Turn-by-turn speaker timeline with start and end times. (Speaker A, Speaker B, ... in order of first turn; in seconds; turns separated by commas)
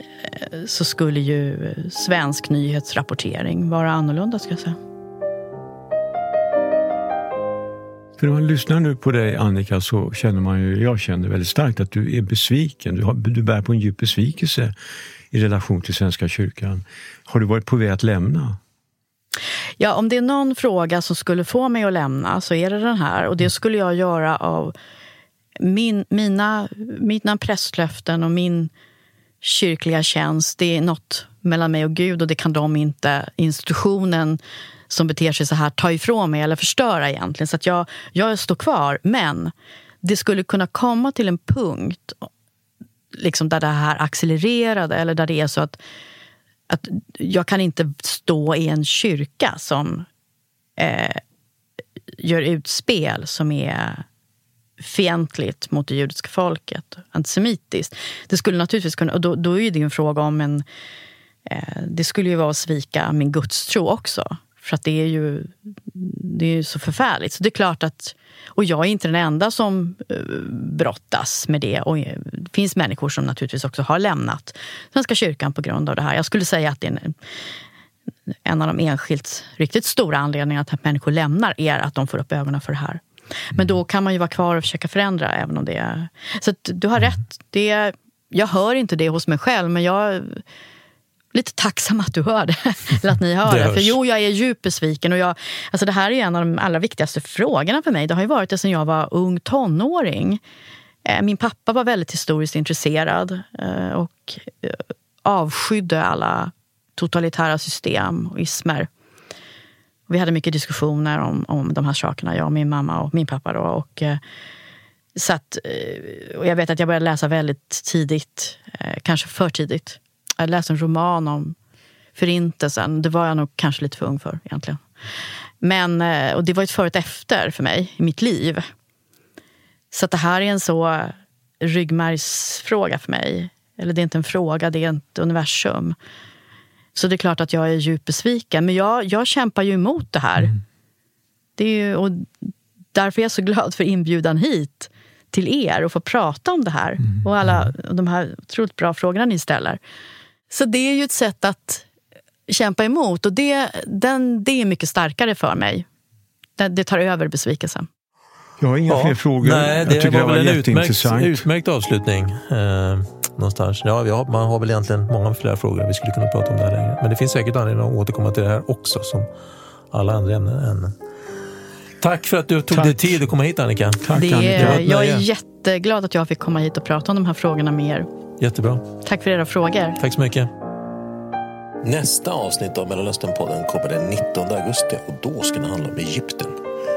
Speaker A: 0.2-4.8, Speaker B: 8.2-14.7, Speaker B: 15.3-18.6, Speaker A: 19.8-24.7, Speaker A: 25.6-28.7, Speaker A: 29.4-42.3, Speaker A: 43.1-45.8, Speaker A: 46.7-50.1, Speaker A: 50.8-51.2, Speaker A: 52.2-54.0, Speaker A: 54.8-60.6, Speaker A: 61.5-77.1, Speaker A: 78.4-90.4, Speaker A: 91.3-100.4, Speaker C: 93.5-93.9, Speaker A: 101.0-108.9, Speaker A: 110.1-114.2, Speaker A: 115.1-121.5, Speaker A: 122.2-124.8, Speaker A: 125.6-128.7, Speaker A: 129.9-135.9, Speaker A: 136.9-140.5, Speaker A: 141.6-142.3, Speaker A: 142.9-149.8, Speaker A: 150.5-151.8, Speaker A: 152.5-155.9, Speaker A: 156.6-157.9, Speaker B: 158.6-161.4, Speaker C: 158.9-169.3, Speaker C: 169.9-170.9, Speaker C: 172.0-175.0, Speaker B: 172.7-173.2, Speaker B: 174.0-175.2, Speaker A: 174.1-178.1, Speaker C: 178.4-178.8, Speaker A: 179.0-180.0, Speaker C: 180.0-180.5, Speaker C: 181.8-186.6